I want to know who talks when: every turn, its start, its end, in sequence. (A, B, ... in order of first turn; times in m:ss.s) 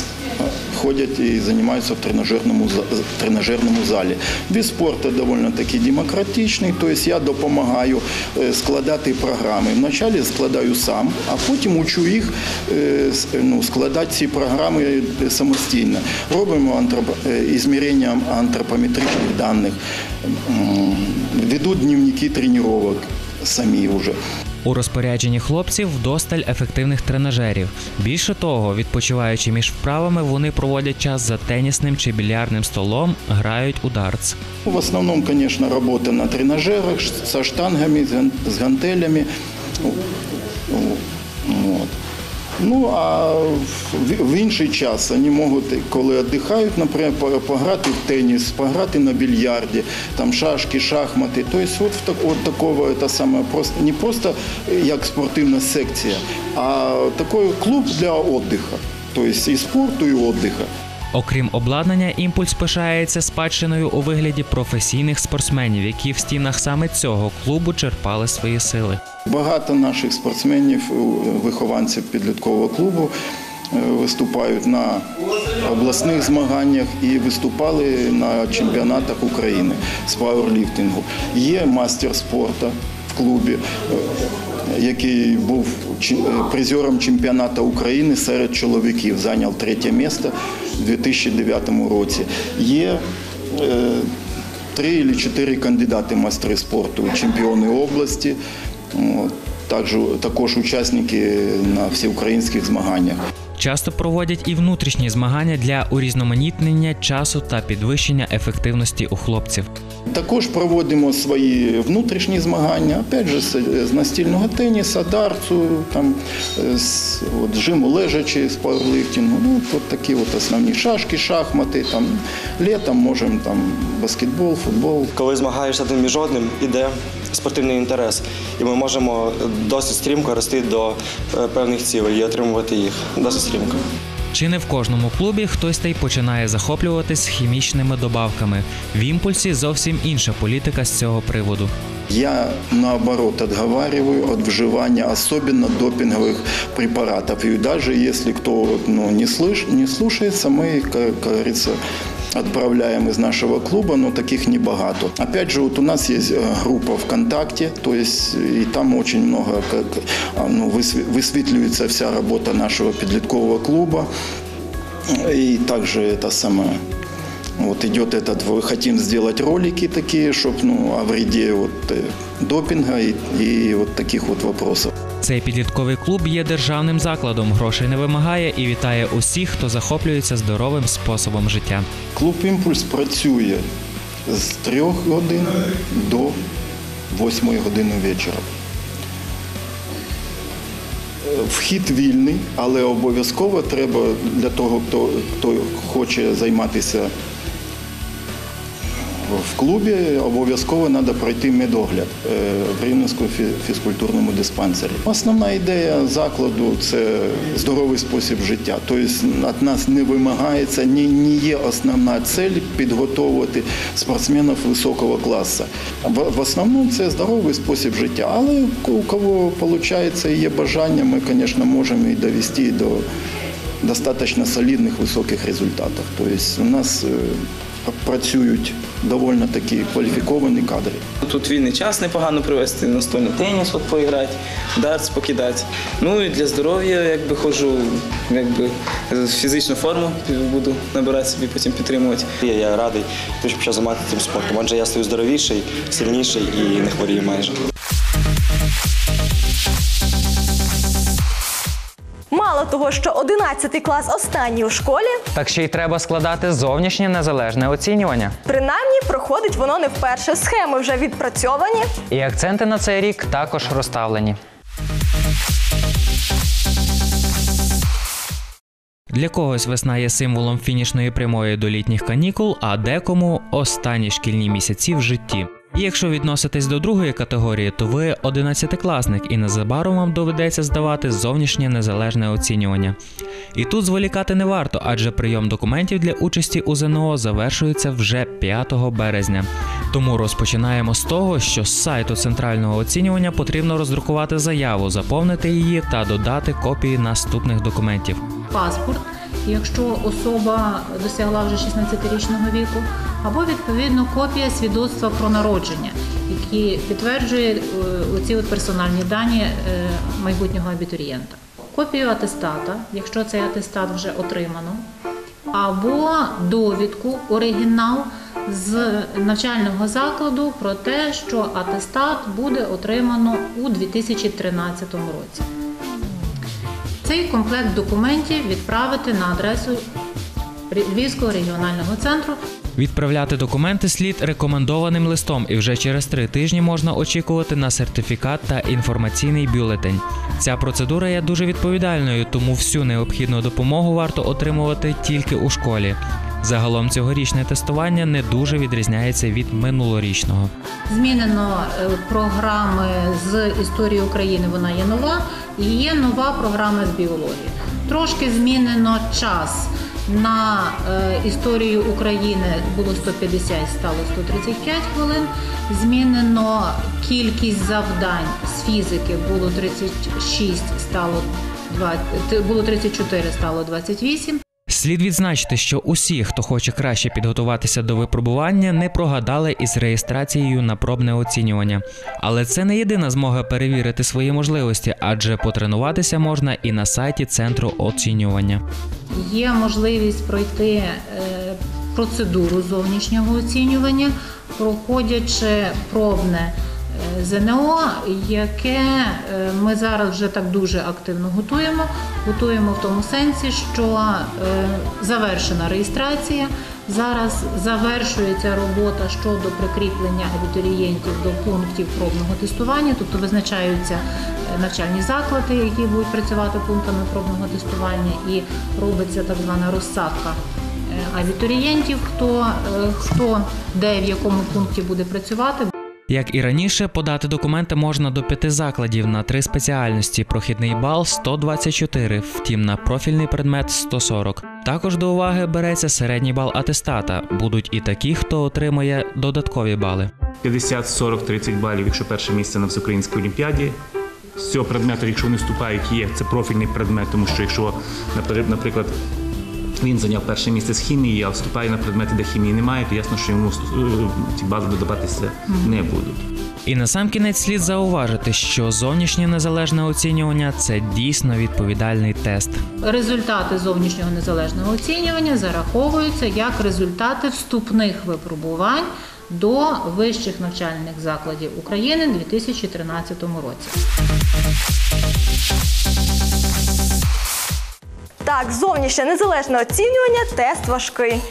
0:00.4-0:24.2 A
0:24.6-0:34.4 B
0:34.6-0:39.3 A
0:40.7-0:41.9 A
0:42.6-1:00.7 A
1:01.1-1:09.0 B
1:09.2-1:13.1 A
1:13.7-1:15.0 A
1:15.6-1:24.1 A
1:24.6-1:34.1 A
1:34.7-1:38.4 A
1:38.9-1:43.2 A
1:43.6-1:49.7 B
1:50.1-2:05.1 A
2:05.1-2:13.8 C
2:14.3-2:21.7 B
2:22.1-2:31.8 A
2:32.3-2:44.1 A
2:45.1-2:46.8 A
2:47.6-2:54.9 A
2:55.2-3:01.8 B
3:02.1-3:03.6 A
3:04.2-3:06.3 A
3:07.1-3:08.4 A
3:11.2-3:17.1 A
3:19.2-3:43.0 A
3:43.8-3:51.0 A
3:51.2-4:02.3 D
4:02.4-4:07.5 C
4:12.3-4:15.2 E
4:15.3-4:18.3 F
4:18.4-4:21.9 E
4:22.1-4:24.4 F
4:29.1-4:43.0 B
4:43.5-4:58.2 B
4:58.5-5:14.8 G
5:15.5-5:25.4 G
5:27.0-5:29.8 G
5:30.7-5:32.4 G
5:32.8-5:50.5 B
5:50.9-6:14.4 G
6:14.7-6:28.6 B
6:29.1-7:05.7 G
7:06.1-7:20.1 B
7:20.4-7:23.8 H
7:24.4-7:28.9 H
7:29.8-7:36.2 H
7:35.5-7:35.8 G
7:36.6-7:42.6 B
7:42.8-7:53.7 G
7:58.2-8:01.2 E